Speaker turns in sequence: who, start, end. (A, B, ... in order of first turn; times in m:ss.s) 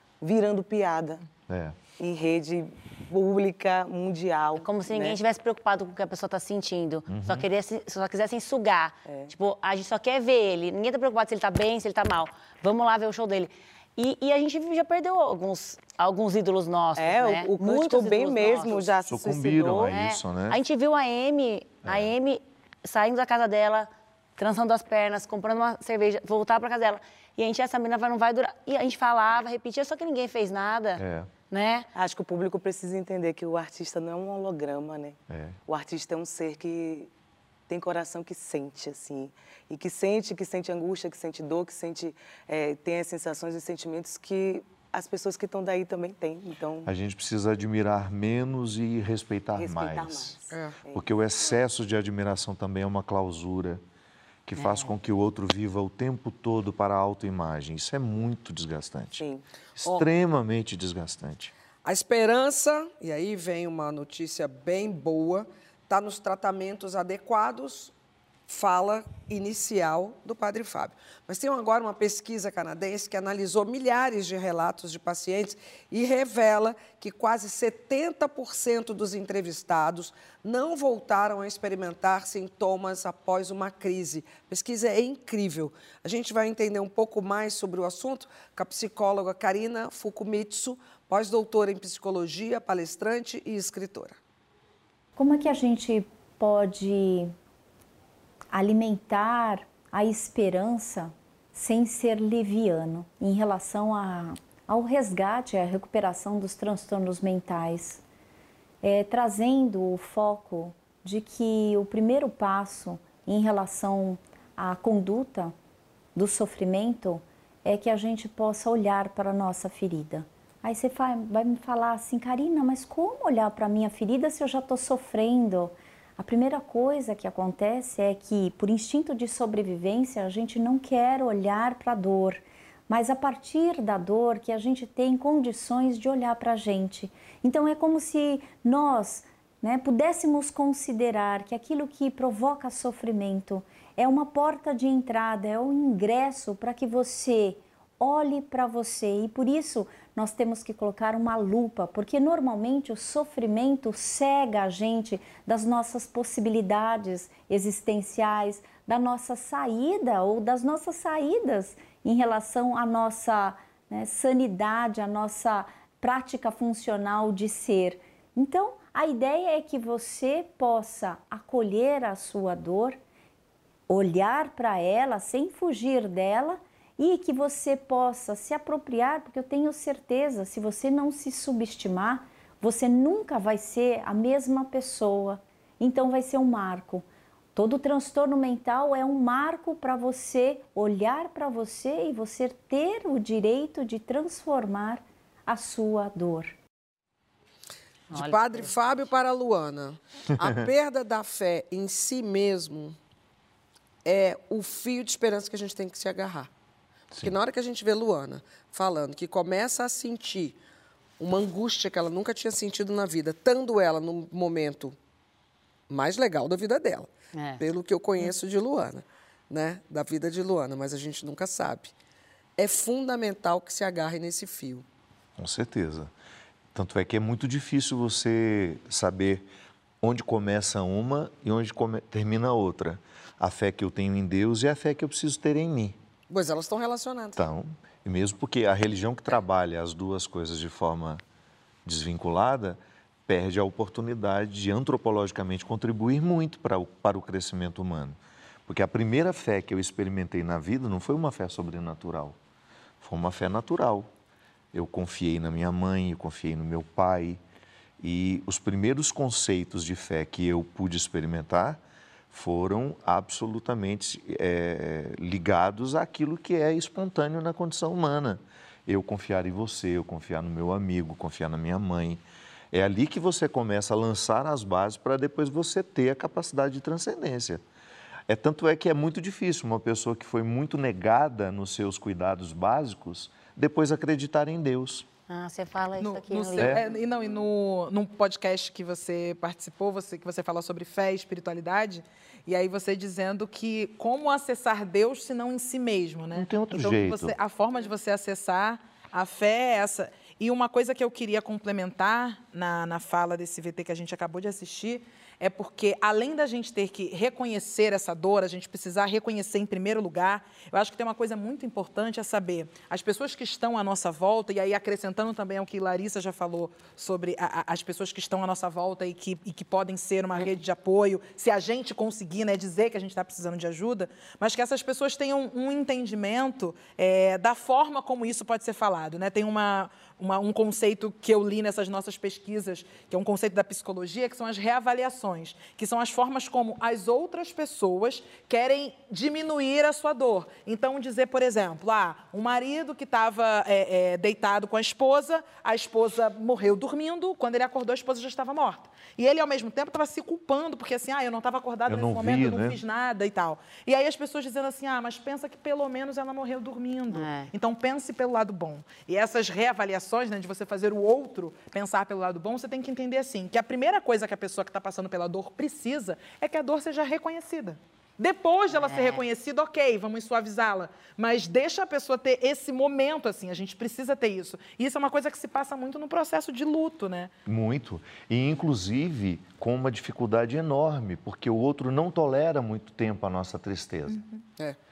0:00.2-0:01.2 A
0:01.5-0:01.8 B
0:02.0-0:05.2 A
0:04.6-0:18.8 C
0:07.1-0:07.5 B
0:17.0-0:19.9 A
0:19.1-0:20.6 B
0:19.9-0:31.9 C
0:21.8-0:22.1 B
0:31.0-0:31.3 B
0:32.0-0:37.1 A
0:35.3-0:35.6 B
0:37.7-0:46.9 A
0:46.8-0:50.4 B
0:49.6-0:51.1 A
0:50.5-0:50.8 D
0:50.9-0:53.8 B
0:54.5-0:59.2 B
0:54.6-0:54.9 C
0:59.8-1:01.5 B
1:01.8-1:07.9 D
1:08.5-1:34.2 D
1:35.2-1:37.3 E
1:38.5-1:48.0 E
1:48.8-1:55.5 E
1:56.2-2:53.0 E
2:53.9-3:16.6 E
3:18.1-3:18.7 C
3:18.1-3:23.0 D
3:24.0-3:26.5 D
3:27.2-3:30.6 D
3:31.2-3:35.0 D
3:35.9-3:37.1 D
3:37.3-3:37.6 C
3:37.6-3:41.9 D
3:42.6-3:44.8 D
3:45.4-3:46.1 B
3:46.7-3:49.5 B
3:50.0-3:56.0 B
3:56.3-3:57.4 D
3:57.4-4:01.2 B
4:01.8-4:12.4 B
4:13.0-4:14.1 B
4:14.7-4:17.4 B
4:18.0-4:37.6 B
4:38.3-4:45.1 B
4:45.3-4:46.8 C
4:46.0-6:17.3 F
4:46.6-4:46.8 B
4:56.3-4:57.4 B
5:51.9-5:52.8 B
5:57.1-5:57.5 C
6:08.7-6:09.2 C
6:17.5-6:24.2 B
6:24.1-6:24.4 F